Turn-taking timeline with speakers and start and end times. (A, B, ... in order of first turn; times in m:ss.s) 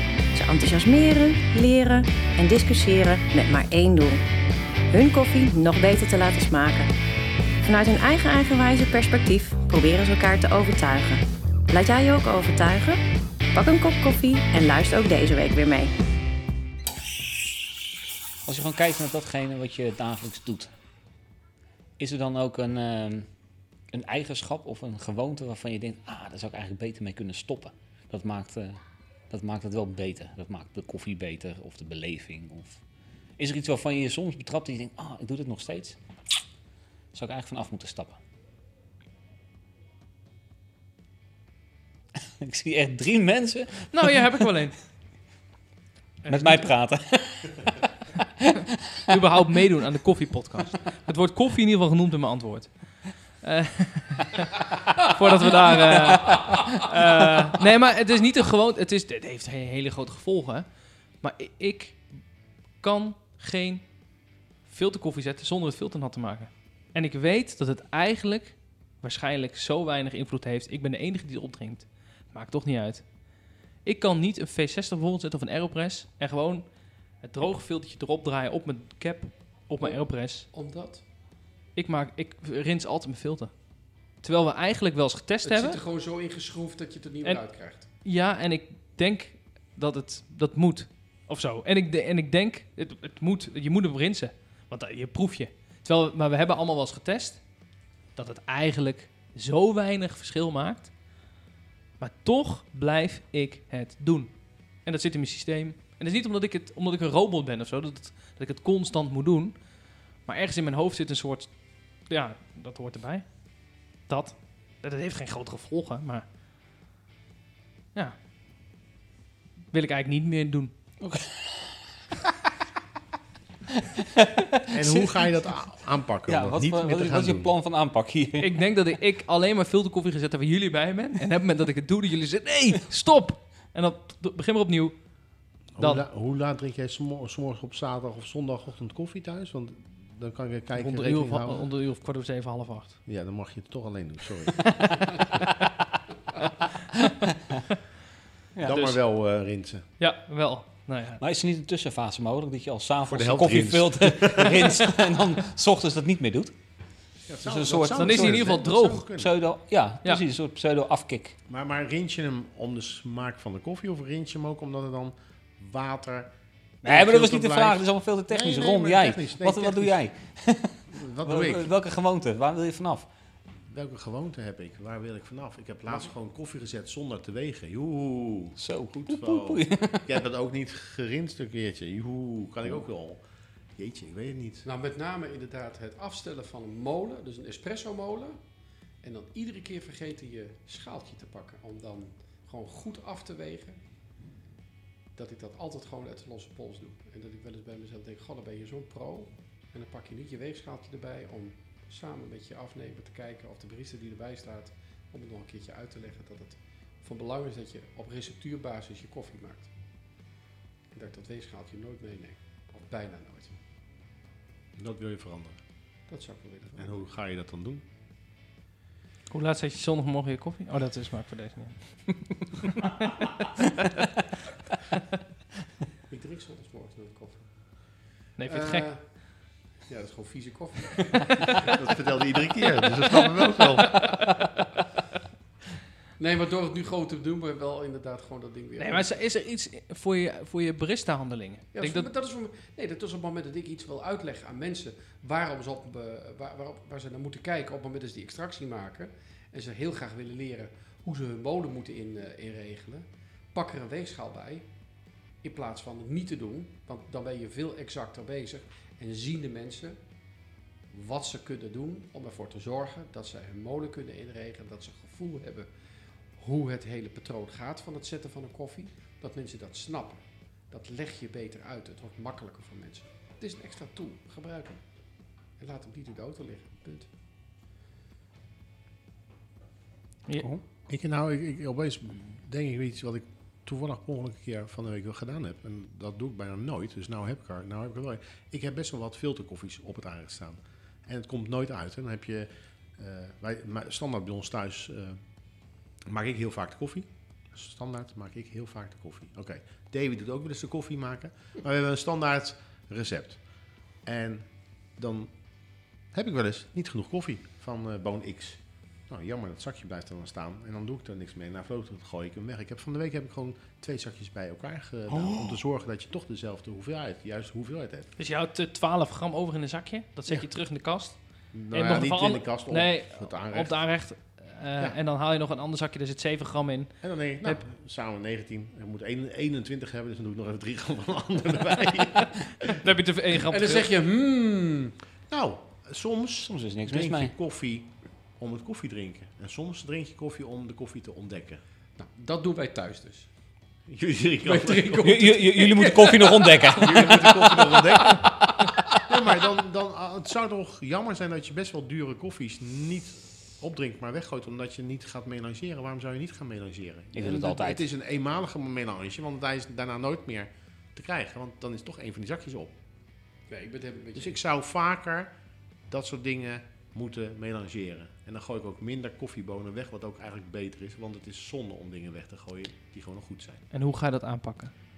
0:00.3-0:04.2 A
0:04.9-0:06.9 A
0:07.6-0:13.0 A
0:13.5-0:15.9 A
0:18.4-0:20.7 B
0:22.0-0:23.3 B
0:23.9-0:32.8 B
0:33.4-0:36.0 B
0:37.1-0:38.2 B
0:42.4-0:44.5 B
0:43.9-0:44.9 C
0:46.2-0:46.7 C
0:46.3-0:47.8 B
0:49.1-1:20.5 C
1:19.8-1:21.0 D
1:21.7-1:25.8 C
1:25.4-1:27.8 D
1:27.2-1:41.3 C
1:42.0-1:56.2 C
1:59.7-2:00.7 C
2:01.0-2:01.8 B
2:04.7-2:07.5 E
2:06.2-2:08.5 B
2:08.4-2:16.0 C
2:15.7-2:21.7 E
2:20.8-2:23.0 C
2:23.0-2:24.7 E
2:24.9-2:25.3 C
2:28.5-2:29.0 B
2:28.6-2:29.9 E
2:30.0-2:31.2 C
2:31.2-2:41.4 B
2:33.1-2:34.8 E
2:37.2-2:39.3 E
2:37.9-2:39.0 C
2:41.5-2:50.1 E
2:46.8-2:53.1 B
2:50.9-2:51.7 E
2:53.7-3:04.6 E
2:58.6-3:00.1 B
3:04.6-3:08.4 D
3:09.0-3:13.8 D
3:15.1-3:30.0 D
3:30.9-3:33.6 D
3:34.8-3:35.6 E
3:36.1-3:37.1 D
3:36.8-3:37.8 E
3:39.3-3:43.3 C
3:46.1-3:51.6 D
3:48.3-3:48.9 C
3:51.7-3:54.2 E
3:56.2-3:59.1 D
3:58.8-4:02.1 C
4:01.7-4:20.3 D
4:20.9-4:37.1 D
4:40.4-5:18.1 E
5:18.2-5:27.6 C
5:20.3-5:20.5 E
5:21.1-5:24.2 E
5:27.0-5:32.8 E
5:32.7-5:33.9 C
5:33.5-5:34.9 D
5:35.3-5:41.6 E
5:36.5-5:37.3 B
5:42.0-5:43.3 D
5:43.9-5:45.2 E
5:44.4-5:48.3 D
5:45.0-5:47.3 B
5:46.7-6:02.7 E
5:57.1-5:57.8 B
6:03.5-6:04.4 D
6:04.1-6:13.6 E
6:13.7-6:14.7 C